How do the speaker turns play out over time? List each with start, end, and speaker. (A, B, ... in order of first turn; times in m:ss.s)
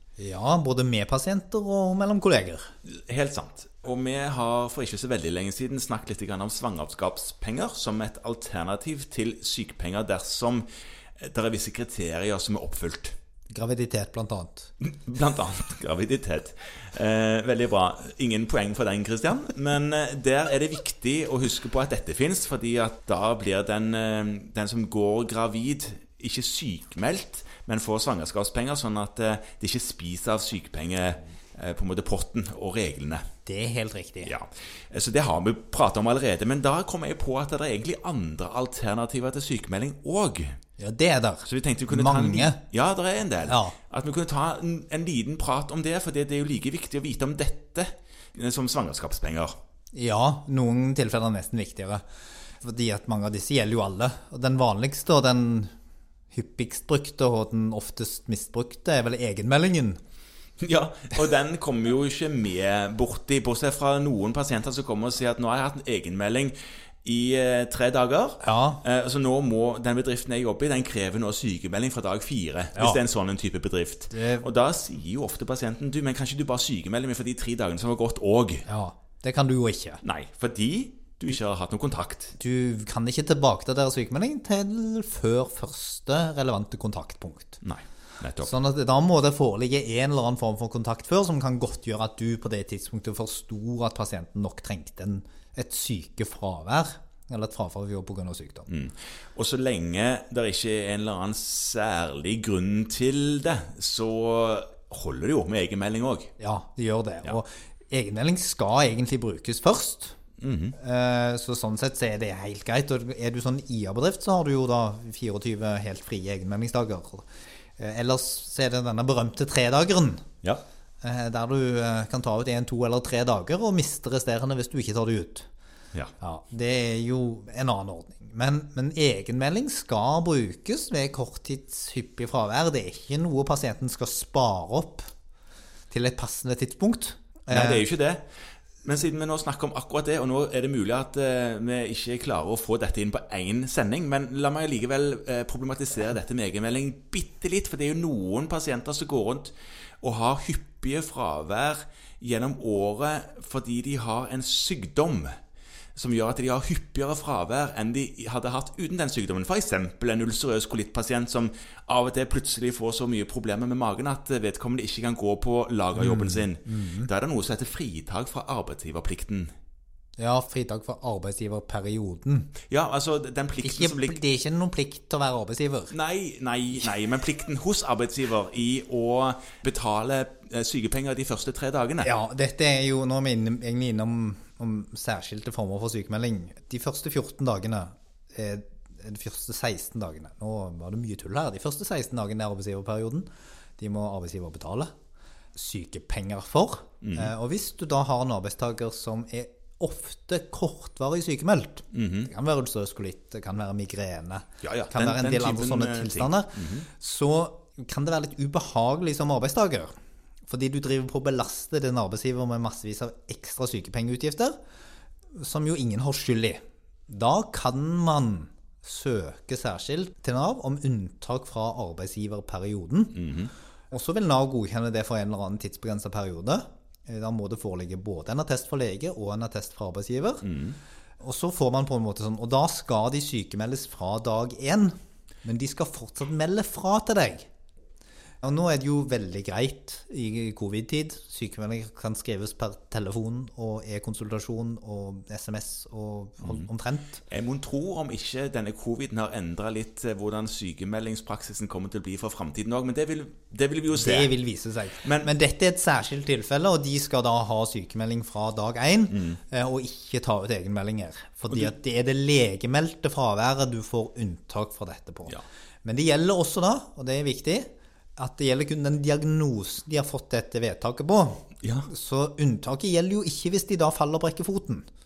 0:00.2-0:02.7 A
0:02.8-0:10.6 B
0:11.2-0:13.1 B
0:13.5-0:14.7 A
0:14.8-0:33.2 B
0:33.4-0:34.3 A
0:34.2-0:40.6 B
0:40.8-0:42.6 A
0:41.4-0:49.6 B
0:43.4-0:43.8 A
0:49.9-0:52.0 A
0:52.6-0:55.7 A
0:56.3-1:00.0 A
1:00.6-1:18.6 B
1:08.4-1:08.8 A
1:12.8-1:13.0 A
1:14.1-1:14.4 A
1:18.6-1:20.0 A
1:20.0-1:22.3 B
1:22.4-1:27.6 A
1:27.6-1:28.5 B
1:28.4-1:38.7 A
1:38.7-1:46.3 B
1:46.4-1:50.2 A
1:50.4-1:50.8 B
1:50.8-1:57.2 A
1:57.8-2:00.2 A
2:01.0-2:05.5 A
2:06.2-2:15.1 A
2:15.9-2:17.8 A
2:17.5-2:18.2 B
2:18.8-2:35.3 B
2:35.9-2:49.5 B
2:46.0-2:47.1 A
2:50.2-2:52.5 A
2:52.7-2:54.2 B
2:53.6-2:55.9 A
2:55.9-3:02.1 B
3:02.0-3:14.9 A
3:15.5-3:29.9 A
3:17.0-3:17.3 B
3:21.9-3:22.3 B
3:24.6-3:26.9 B
3:30.5-3:34.6 A
3:35.3-3:43.2 A
3:43.1-3:43.5 B
3:43.9-3:50.4 A
3:50.4-3:50.8 B
3:51.2-3:57.5 A
3:58.4-4:07.2 A
4:07.3-4:14.3 B
4:13.9-4:34.8 A
4:15.0-4:15.3 B
4:19.1-4:19.4 B
4:31.6-4:31.9 B